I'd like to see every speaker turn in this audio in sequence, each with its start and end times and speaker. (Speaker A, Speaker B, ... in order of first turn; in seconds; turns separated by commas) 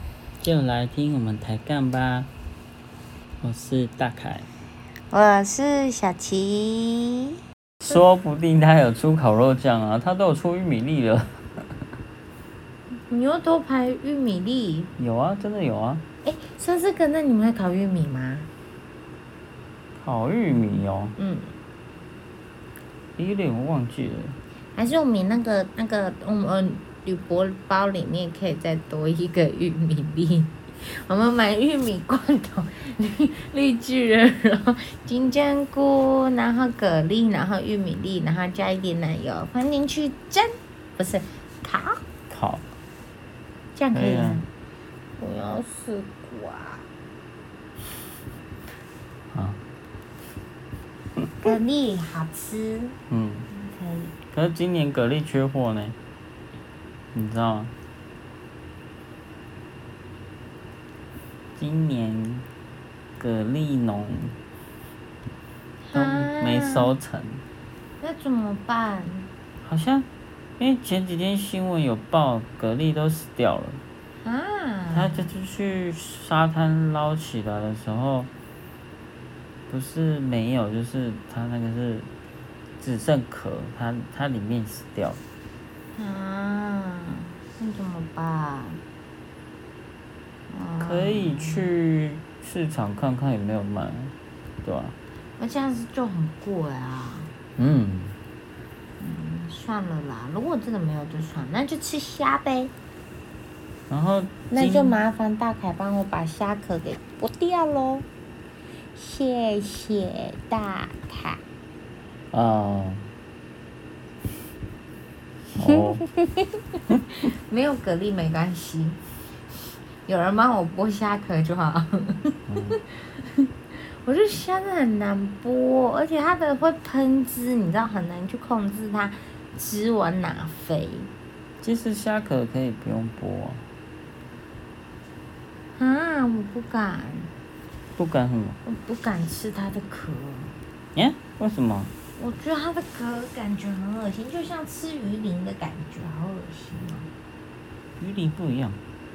Speaker A: 0.4-2.3, Speaker A: 3.4-4.5, Speaker B: 5.1-7.4, Speaker A: 7.8-11.7, Speaker B: 13.1-14.9, Speaker A: 15.0-16.0, Speaker B: 16.2-18.5, Speaker A: 20.0-21.2, Speaker B: 21.2-21.5, Speaker A: 23.2-24.4, Speaker B: 24.8-42.0, Speaker A: 42.3-42.6, Speaker B: 43.8-44.5, Speaker A: 43.9-44.4, Speaker B: 45.2-46.9, Speaker A: 49.3-49.6, Speaker B: 51.4-53.0, Speaker A: 53.1-53.5, Speaker B: 53.5-54.1, Speaker A: 54.3-56.0, Speaker A: 57.1-57.7, Speaker A: 61.6-62.5, Speaker A: 63.2-64.4, Speaker B: 65.9-66.9, Speaker A: 65.9-67.4, Speaker B: 68.0-69.3, Speaker A: 69.6-70.1, Speaker A: 70.6-73.8, Speaker B: 74.2-75.3, Speaker A: 74.9-78.3, Speaker A: 79.7-82.1, Speaker A: 82.8-85.2, Speaker B: 85.9-88.8, Speaker B: 90.5-91.7, Speaker A: 90.8-94.1, Speaker A: 94.6-95.0, Speaker B: 95.4-97.3, Speaker A: 97.6-98.2, Speaker B: 99.0-102.7, Speaker A: 103.9-105.0, Speaker B: 104.5-108.1, Speaker B: 109.0-111.4, Speaker A: 112.3-113.0, Speaker A: 115.5-116.0, Speaker B: 115.6-119.0, Speaker B: 120.1-123.5, Speaker A: 122.5-122.8, Speaker B: 124.0-131.1, Speaker A: 131.6-133.7, Speaker B: 135.8-137.3, Speaker A: 138.0-138.6, Speaker B: 138.7-140.6, Speaker A: 140.9-141.9, Speaker B: 142.2-147.1, Speaker A: 148.0-148.8